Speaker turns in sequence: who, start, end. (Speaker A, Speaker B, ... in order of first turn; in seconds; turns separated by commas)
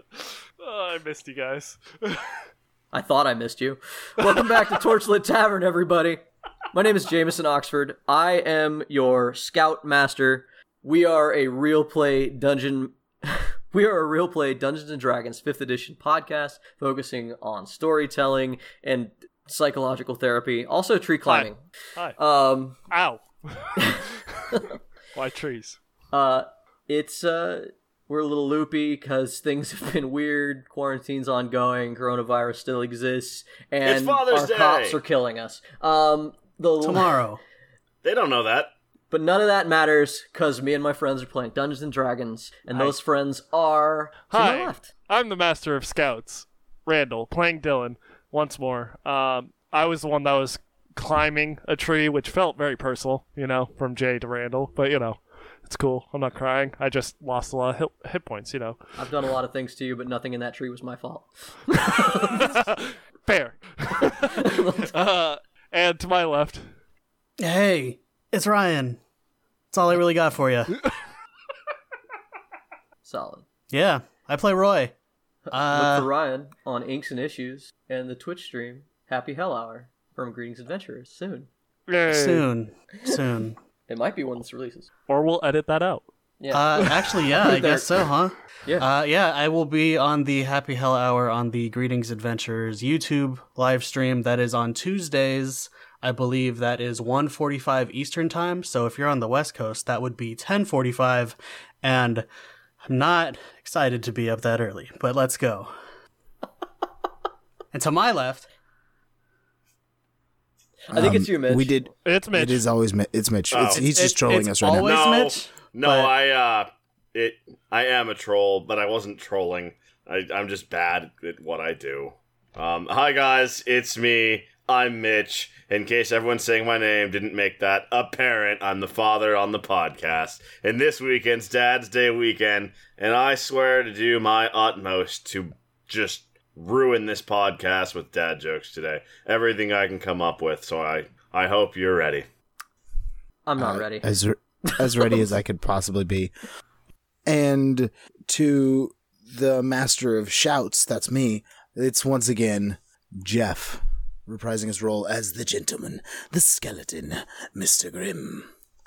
Speaker A: 0.1-2.3, Speaker B: 2.9-21.6, Speaker A: 21.2-22.2, Speaker B: 22.2-22.8, Speaker A: 22.9-24.4, Speaker B: 23.8-24.8, Speaker A: 25.1-25.8, Speaker B: 26.1-37.2, Speaker C: 33.8-35.0, Speaker D: 36.8-37.4, Speaker C: 38.0-38.7, Speaker B: 39.1-44.9, Speaker A: 44.3-58.9, Speaker B: 59.0-62.6, Speaker A: 61.8-66.7, Speaker B: 64.3-64.9, Speaker D: 67.4-69.0, Speaker D: 69.7-70.8, Speaker B: 73.0-73.4, Speaker D: 73.7-74.9, Speaker B: 75.5-81.5, Speaker D: 75.5-76.1, Speaker A: 81.9-82.5, Speaker D: 82.1-83.6, Speaker B: 83.9-84.9, Speaker A: 85.1-86.1, Speaker B: 86.4-88.1, Speaker D: 86.5-102.2, Speaker D: 102.9-105.7, Speaker D: 107.7-108.5, Speaker B: 110.9-111.9, Speaker E: 110.9-115.1, Speaker A: 112.0-112.6, Speaker C: 113.5-113.8, Speaker D: 113.7-116.1, Speaker C: 114.7-142.2, Speaker B: 143.4-144.1, Speaker E: 143.6-146.3, Speaker B: 144.7-145.2, Speaker E: 147.2-158.5